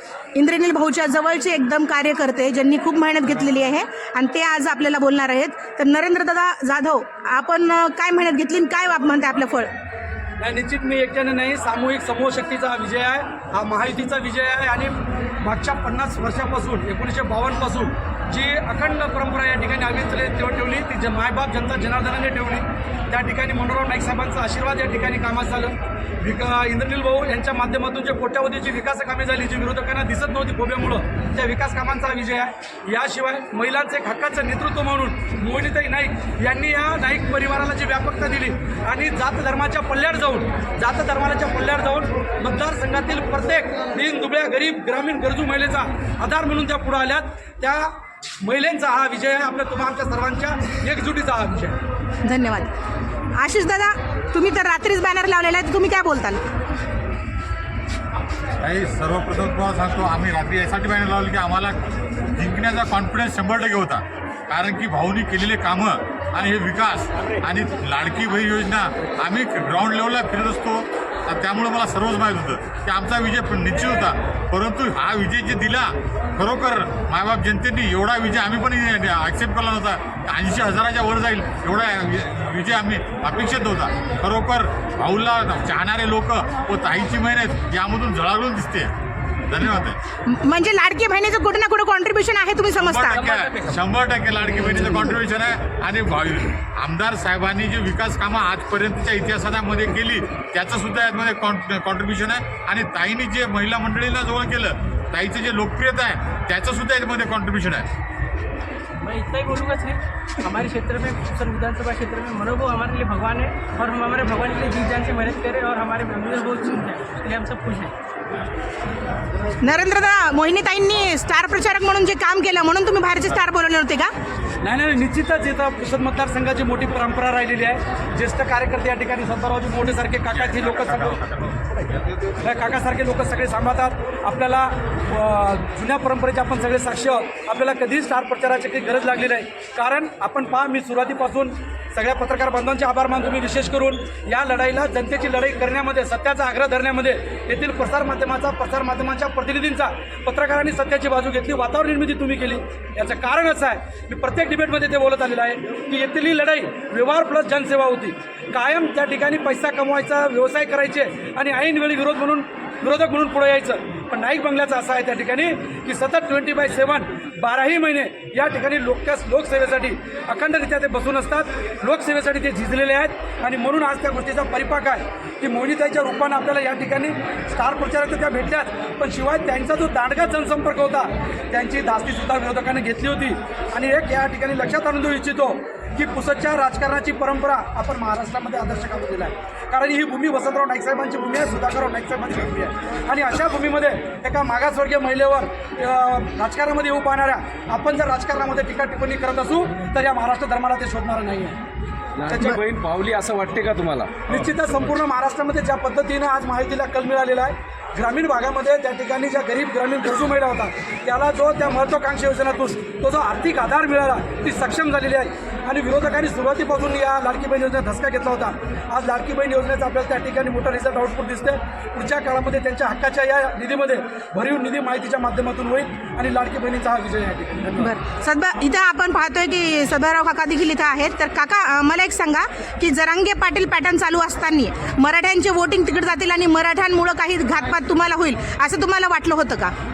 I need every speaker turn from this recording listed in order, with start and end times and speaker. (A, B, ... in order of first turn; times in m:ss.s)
0:00.3-0:09.7 A
0:10.4-0:14.9 B
0:15.4-0:47.9 B
0:48.4-0:51.8 B
0:52.2-0:52.7 A
0:53.4-0:56.4 A
0:58.6-1:01.8 C
1:02.4-1:28.9 C
1:29.5-1:30.0 C
1:30.2-1:33.2 A
1:32.8-1:47.9 C
1:49.0-1:57.9 D
1:59.6-2:04.1 A
2:04.6-2:11.0 B
2:12.4-3:21.6 B
3:22.2-3:24.4 E
3:24.3-3:47.6 B
3:47.8-3:59.7 A